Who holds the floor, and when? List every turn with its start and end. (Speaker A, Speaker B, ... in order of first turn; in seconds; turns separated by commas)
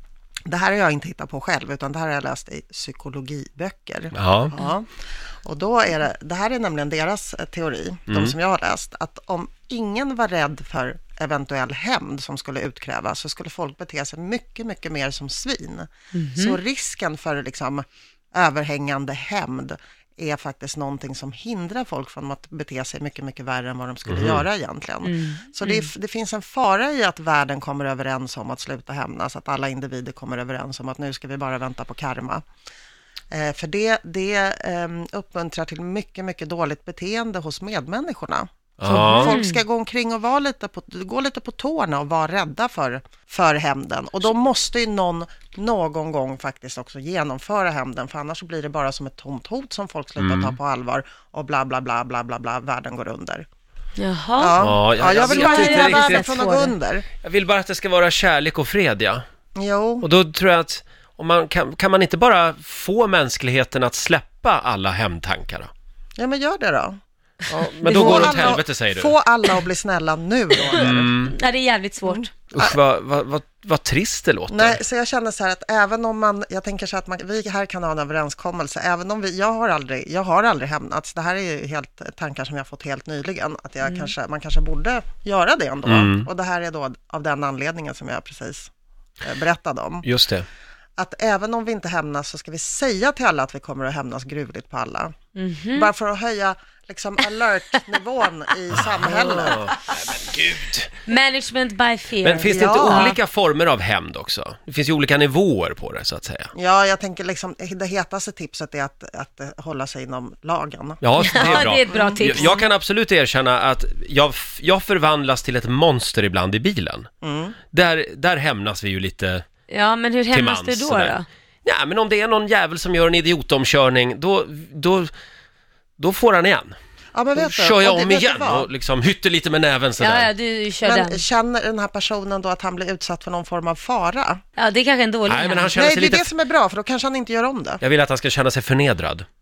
Speaker A: 0.5-4.9, Speaker B: 4.1-4.5, Speaker A: 5.4-32.4, Speaker B: 8.1-8.3, Speaker C: 16.1-16.6, Speaker B: 24.1-24.4, Speaker C: 25.0-25.9, Speaker A: 33.3-53.4, Speaker B: 38.8-39.4, Speaker C: 38.9-39.6, Speaker B: 50.2-50.5, Speaker C: 54.0-56.7, Speaker A: 54.4-57.0, Speaker B: 54.6-56.3, Speaker B: 57.2-59.2, Speaker A: 59.5-60.1, Speaker B: 60.0-65.7, Speaker A: 66.2-67.0, Speaker B: 67.5-69.1, Speaker A: 67.8-71.2, Speaker C: 67.9-68.5, Speaker C: 70.7-72.3, Speaker B: 70.8-71.3, Speaker A: 72.1-72.8, Speaker B: 72.5-74.8, Speaker A: 74.5-88.7, Speaker C: 83.8-84.1, Speaker B: 85.8-86.3, Speaker A: 89.2-90.0, Speaker B: 90.0-90.5, Speaker A: 91.0-95.1, Speaker C: 95.3-95.9, Speaker A: 95.7-99.6, Speaker B: 98.7-100.9, Speaker C: 101.0-103.2, Speaker B: 102.2-106.5, Speaker A: 102.4-103.2, Speaker A: 106.5-112.5, Speaker B: 111.0-117.1, Speaker C: 111.2-112.7, Speaker A: 117.2-117.5, Speaker B: 117.7-119.4, Speaker C: 119.7-121.2, Speaker B: 120.3-125.1, Speaker B: 126.0-126.7, Speaker A: 127.1-128.7, Speaker B: 127.3-130.3, Speaker C: 130.0-131.2, Speaker A: 130.8-134.4, Speaker C: 134.6-135.7, Speaker B: 135.3-136.3, Speaker A: 135.7-137.8, Speaker B: 137.8-139.2